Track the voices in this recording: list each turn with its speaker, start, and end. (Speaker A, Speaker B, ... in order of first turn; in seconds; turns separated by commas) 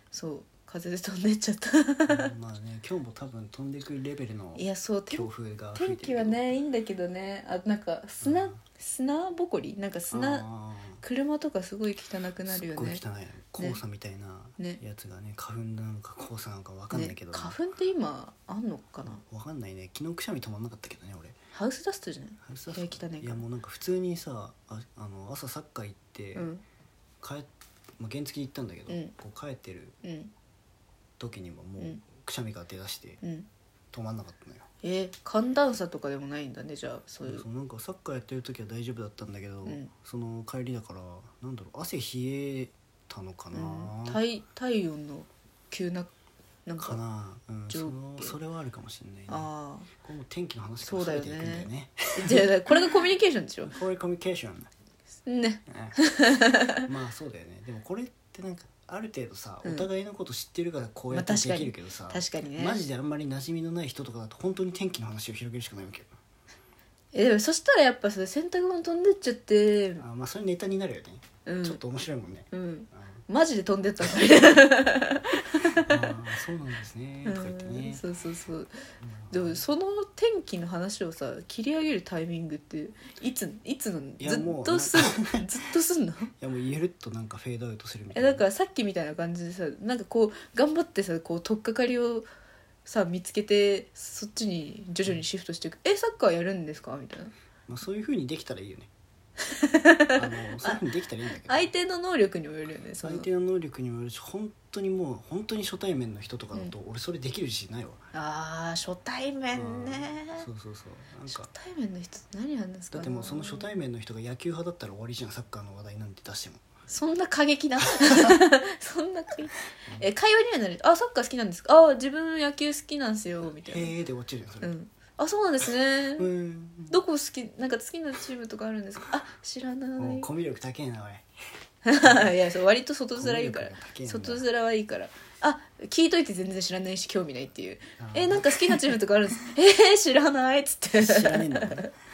Speaker A: 0.1-2.3, Speaker B: 2.1-6.5, Speaker A: 4.6-10.4, Speaker B: 8.2-8.6, Speaker B: 10.1-11.0, Speaker A: 11.0-13.0, Speaker B: 12.5-17.6, Speaker A: 16.9-19.2, Speaker B: 19.2-21.4, Speaker A: 21.5-23.4, Speaker B: 22.4-26.5, Speaker A: 26.4-26.6, Speaker B: 27.2-30.0, Speaker A: 30.0-30.3, Speaker B: 31.2-33.2, Speaker A: 33.2-33.5, Speaker B: 33.9-34.7, Speaker A: 34.8-37.5, Speaker B: 37.2-44.2, Speaker A: 39.6-39.9, Speaker A: 43.5-46.1, Speaker A: 46.7-47.0, Speaker B: 46.8-52.9, Speaker A: 47.7-48.4, Speaker A: 49.3-49.9, Speaker A: 50.8-53.7, Speaker B: 53.6-54.7, Speaker A: 55.3-56.9, Speaker B: 55.7-56.0, Speaker B: 56.9-66.1, Speaker A: 61.1-62.8, Speaker A: 67.1-70.0, Speaker B: 70.0-73.2, Speaker A: 71.5-71.8, Speaker A: 72.5-76.1, Speaker B: 75.9-78.0, Speaker A: 77.3-78.8, Speaker B: 79.0-79.7, Speaker A: 79.3-86.3, Speaker B: 84.2-85.5, Speaker B: 86.4-88.4, Speaker A: 88.1-92.3, Speaker A: 92.8-97.3, Speaker B: 97.7-98.9, Speaker A: 99.5-100.8, Speaker B: 100.2-101.7, Speaker A: 101.5-103.3, Speaker B: 103.0-108.0, Speaker A: 108.1-110.5, Speaker B: 109.5-111.5, Speaker A: 111.3-113.8, Speaker B: 112.9-116.6, Speaker A: 116.9-123.9, Speaker B: 118.0-118.3, Speaker B: 123.4-124.7, Speaker A: 124.6-126.3, Speaker B: 126.2-127.0, Speaker A: 126.9-130.3, Speaker B: 130.0-131.3, Speaker A: 131.8-141.9, Speaker B: 132.0-132.5, Speaker B: 133.2-134.4, Speaker B: 138.0-139.0, Speaker B: 140.9-141.9